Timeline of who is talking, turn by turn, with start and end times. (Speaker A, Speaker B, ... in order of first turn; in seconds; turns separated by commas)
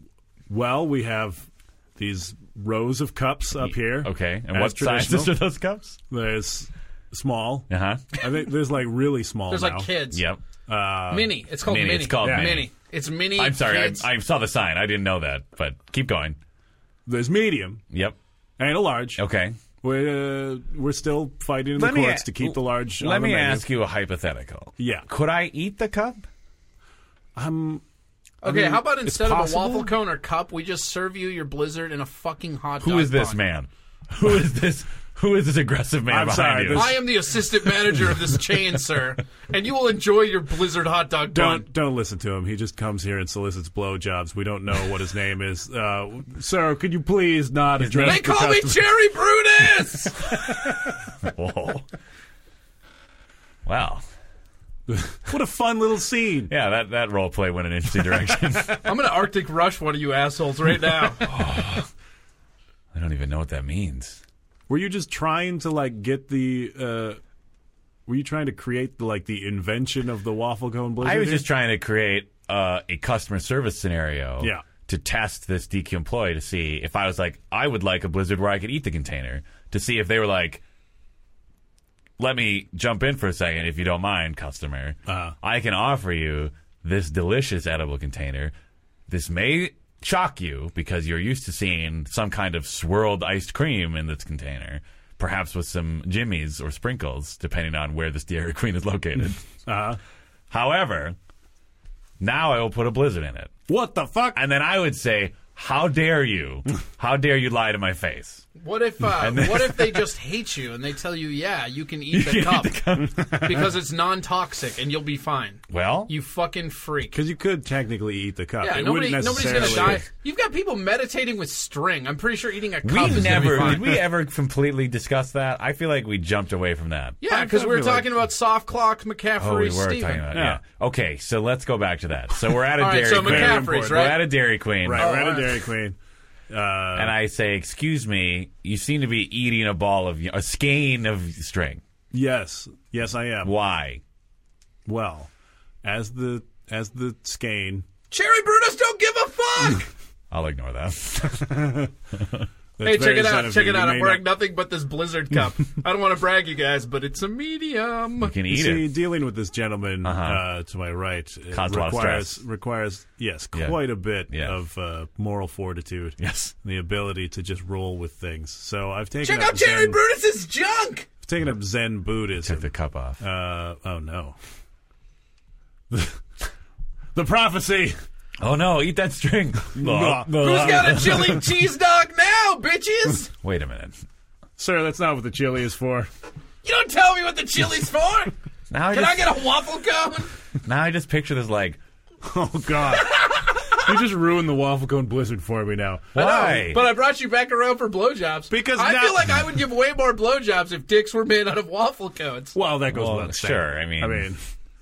Speaker A: 0.5-5.3, Speaker B: 3.6-6.0, Speaker A: 6.1-9.9, Speaker B: 7.7-8.1, Speaker C: 9.5-10.2, Speaker B: 10.1-10.4, Speaker A: 10.7-11.3, Speaker C: 11.1-14.1, Speaker B: 11.6-12.7, Speaker A: 12.2-12.7, Speaker B: 13.3-16.4, Speaker A: 17.1-17.8, Speaker B: 17.9-18.2, Speaker A: 18.6-19.2, Speaker B: 19.1-19.6, Speaker A: 19.8-23.6, Speaker B: 21.7-26.2, Speaker A: 24.8-25.1, Speaker A: 27.4-27.8, Speaker C: 28.4-33.4, Speaker A: 28.4-29.9, Speaker B: 32.8-37.0, Speaker A: 36.1-37.4, Speaker C: 36.7-41.7, Speaker A: 41.3-48.9, Speaker B: 47.8-48.3, Speaker C: 48.0-50.3, Speaker B: 51.2-51.9, Speaker B: 53.6-54.0, Speaker A: 54.9-56.5, Speaker B: 56.5-58.9, Speaker C: 58.7-61.3, Speaker B: 61.3-61.9, Speaker B: 62.9-64.2, Speaker A: 64.7-67.2, Speaker A: 68.1-71.5, Speaker B: 71.0-80.6, Speaker A: 74.4-74.7, Speaker B: 82.2-88.5, Speaker A: 85.1-85.3, Speaker B: 89.1-99.4, Speaker A: 99.7-100.0, Speaker B: 100.5-101.2, Speaker B: 102.2-103.5, Speaker A: 103.7-104.4, Speaker B: 104.3-108.5, Speaker C: 108.6-117.2, Speaker B: 109.1-110.0, Speaker B: 112.1-113.7, Speaker B: 115.7-116.1, Speaker A: 117.1-120.0, Speaker C: 118.6-124.0, Speaker B: 119.4-120.0, Speaker B: 122.8-127.2, Speaker A: 123.2-123.9, Speaker C: 127.2-130.3, Speaker A: 127.2-128.1, Speaker B: 129.4-135.1, Speaker A: 130.3-130.6, Speaker C: 132.8-134.3, Speaker A: 132.9-134.2, Speaker A: 134.8-136.0, Speaker C: 134.9-135.6, Speaker A: 136.5-137.2, Speaker B: 136.9-141.8, Speaker A: 142.1-143.5, Speaker B: 143.4-144.0, Speaker A: 144.8-145.3, Speaker A: 145.8-147.9, Speaker C: 148.1-149.9, Speaker B: 150.3-151.7, Speaker A: 151.2-151.9, Speaker A: 152.8-154.3, Speaker C: 152.8-158.3, Speaker B: 158.2-158.9, Speaker A: 158.5-170.0, Speaker B: 160.0-160.4, Speaker B: 161.5-162.4, Speaker B: 163.5-164.6, Speaker B: 166.2-166.5, Speaker C: 169.2-171.1, Speaker A: 171.2-174.4, Speaker B: 172.4-173.2, Speaker A: 175.9-176.2, Speaker A: 177.1-178.0, Speaker B: 178.4-181.4, Speaker A: 179.8-181.2, Speaker C: 180.3-183.3, Speaker B: 183.4-184.0, Speaker A: 184.6-186.1, Speaker C: 186.6-188.3, Speaker B: 188.7-189.4, Speaker C: 188.9-190.3, Speaker B: 190.6-191.8, Speaker A: 192.2-196.2, Speaker C: 193.0-193.8, Speaker B: 196.1-196.9, Speaker C: 196.1-202.5, Speaker A: 198.5-199.6, Speaker A: 202.5-204.4, Speaker B: 202.9-204.3